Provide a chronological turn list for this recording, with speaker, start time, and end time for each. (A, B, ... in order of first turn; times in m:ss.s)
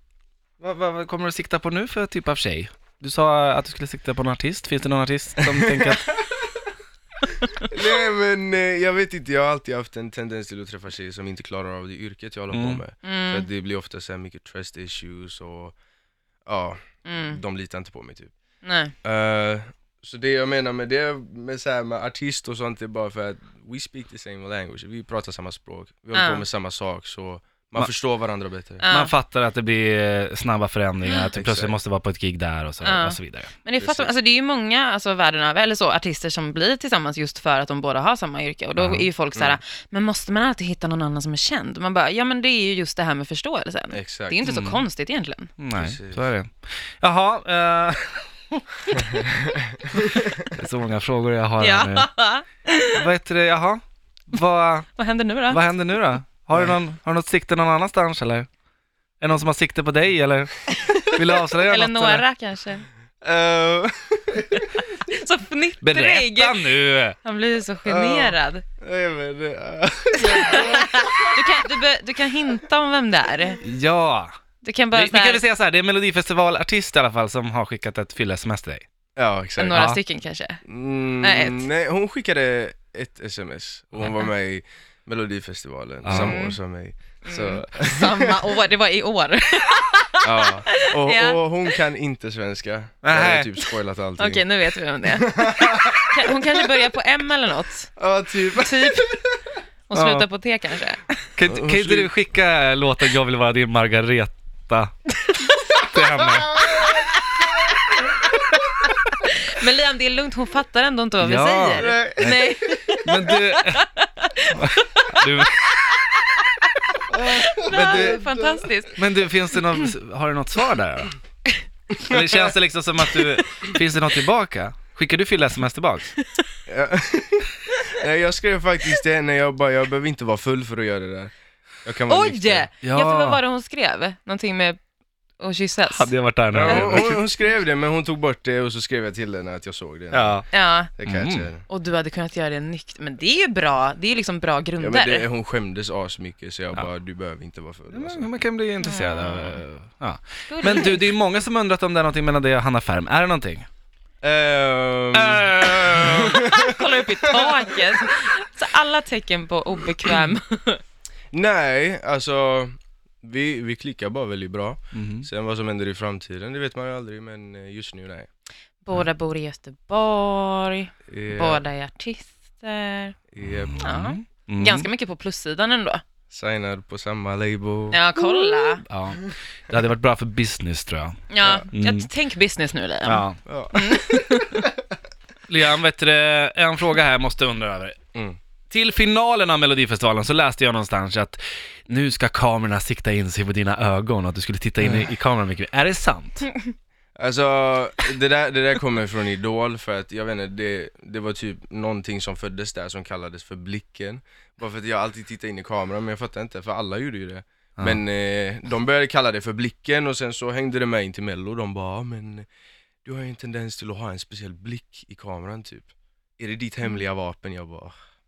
0:00.6-0:06.2 A
0:05.7-0:06.4 B
0:07.6-0:15.8 B
0:12.5-0:12.8 A
0:13.0-0:13.5 C
0:16.4-0:18.3 B
0:17.0-0:17.4 C
0:18.6-0:18.9 C
0:19.0-0:28.8 B
0:26.1-0:26.4 C
0:28.8-0:29.1 C
0:28.9-0:33.5 A
0:31.0-0:31.3 C
0:31.3-0:31.7 B
0:32.8-0:45.5 C
0:33.8-0:34.1 B
0:38.8-0:39.1 A
0:43.9-0:44.4 B
0:44.4-0:44.8 A
0:45.6-0:48.3 A
0:45.8-0:46.3 B
0:49.2-0:50.1 B
0:50.3-0:52.1 A
0:51.6-0:53.1 C
0:52.9-0:54.9 A
0:55.0-0:55.6 C
0:55.5-0:58.5 A
0:59.2-1:02.2 A
1:01.6-1:02.8 C
1:03.2-1:04.6 B
1:04.8-1:08.6 C
1:05.8-1:07.2 A
1:07.8-1:11.6 B
1:10.2-1:13.6 C
1:13.6-1:14.3 A
1:14.6-1:15.4 C
1:14.9-1:18.8 A
1:19.2-1:19.8 B
1:19.6-1:20.6 C
1:19.7-1:20.0 A
1:20.6-1:28.4 B
1:21.2-1:21.7 C
1:26.0-1:26.4 A
1:26.1-1:26.6 C
1:27.2-1:31.8 C
1:30.2-1:34.4 B
1:33.0-1:33.5 A
1:34.2-1:38.0 C
1:35.1-1:36.3 B
1:38.0-1:39.2 B
1:38.6-1:39.2 C
1:39.9-1:41.0 C
1:39.9-1:40.3 A
1:41.3-1:44.9 A
1:41.5-1:42.1 B
1:45.8-1:46.6 A
1:46.6-1:47.0 B
1:46.7-1:47.0 C
1:49.2-1:59.9 C
1:51.2-1:52.4 A
1:51.8-1:53.0 B
1:53.0-1:53.8 A
1:54.5-1:55.8 A
1:57.1-1:58.7 B
1:59.0-2:01.1 A
2:02.0-2:06.1 A
2:02.1-2:02.5 B
2:06.7-2:11.3 B
2:11.8-2:12.7 B
2:12.1-2:14.8 C
2:12.8-2:13.4 A
2:15.4-2:16.1 C
2:15.9-2:17.1 A
2:16.5-2:20.4 B
2:16.6-2:17.2 C
2:20.1-2:20.4 A
2:20.5-2:20.9 C
2:21.0-2:21.6 B
2:21.0-2:21.5 A
2:21.7-2:25.2 C
2:24.8-2:28.3 B
2:27.9-2:33.6 A
2:28.8-2:29.6 C
2:30.5-2:31.1 C
2:34.2-2:37.7 B
2:35.1-2:36.4 A
2:36.3-2:40.8 C
2:41.3-2:48.3 B
2:44.9-2:45.2 A
2:48.8-2:53.2 C
2:51.1-2:51.6 B
2:53.3-2:53.9 B
2:53.4-2:54.9 A
2:53.8-2:56.0 C
2:56.3-2:58.0 B
2:57.9-2:58.8 C
2:58.8-3:01.2 A
3:01.3-3:04.7 C
3:01.4-3:01.7 B
3:01.7-3:02.1 A
3:03.0-3:03.4 A
3:03.4-3:04.4 B
3:05.5-3:08.0 A
3:08.7-3:16.5 A
3:17.2-3:32.4 B
3:33.0-3:37.9 B